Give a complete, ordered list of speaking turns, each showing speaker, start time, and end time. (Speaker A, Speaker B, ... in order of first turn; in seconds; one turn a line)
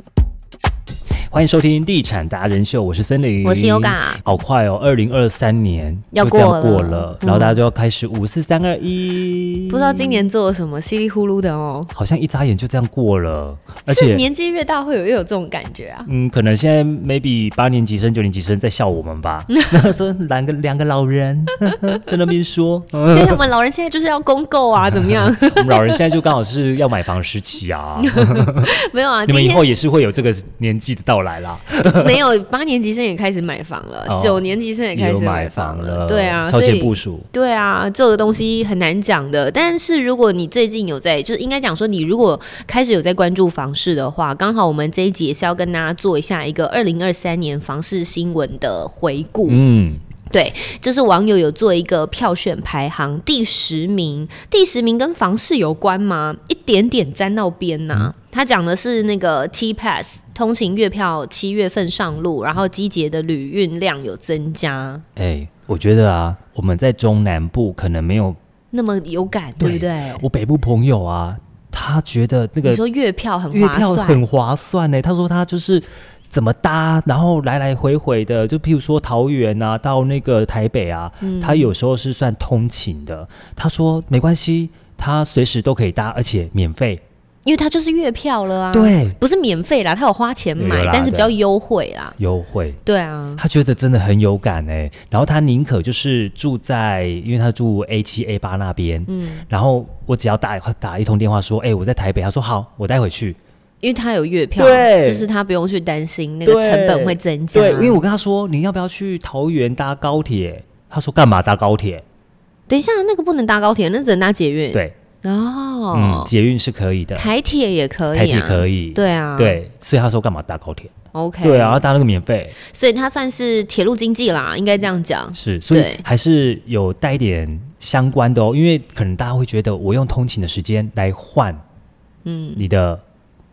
Speaker A: 1.3-10.2
Speaker B: 3.4-4.2
Speaker B: 6.1-7.6
Speaker B: 9.7-11.9
Speaker A: 11.9-14.2
Speaker B: 13.9-16.1
Speaker A: 16.1-23.4
Speaker B: 23.1-26.0
Speaker A: 24.9-28.7
Speaker B: 28.0-29.6
Speaker A: 29.2-32.2
Speaker B: 31.9-49.6
Speaker A: 34.0-37.3
Speaker A: 49.5-50.0
Speaker B: 50.3-65.0
Speaker A: 65.2-68.4
Speaker B: 68.7-70.2
Speaker A: 69.6-72.8
Speaker B: 72.6-74.2
Speaker A: 73.5-87.0
Speaker B: 81.2-81.7
Speaker B: 87.4-92.1
Speaker A: 88.7-89.2
Speaker A: 90.6-91.3
Speaker A: 92.2-92.8
Speaker B: 92.8-93.4
Speaker A: 93.4-103.4
Speaker B: 99.1-99.4
Speaker B: 103.8-108.0
Speaker A: 104.6-105.3
Speaker A: 106.4-112.0
Speaker B: 112.7-116.3
Speaker A: 115.9-117.3
Speaker B: 117.2-119.6
Speaker A: 118.1-122.5
Speaker B: 121.1-121.8
Speaker B: 122.6-126.0
Speaker A: 125.3-131.6
Speaker B: 132.2-132.6
Speaker A: 132.6-133.0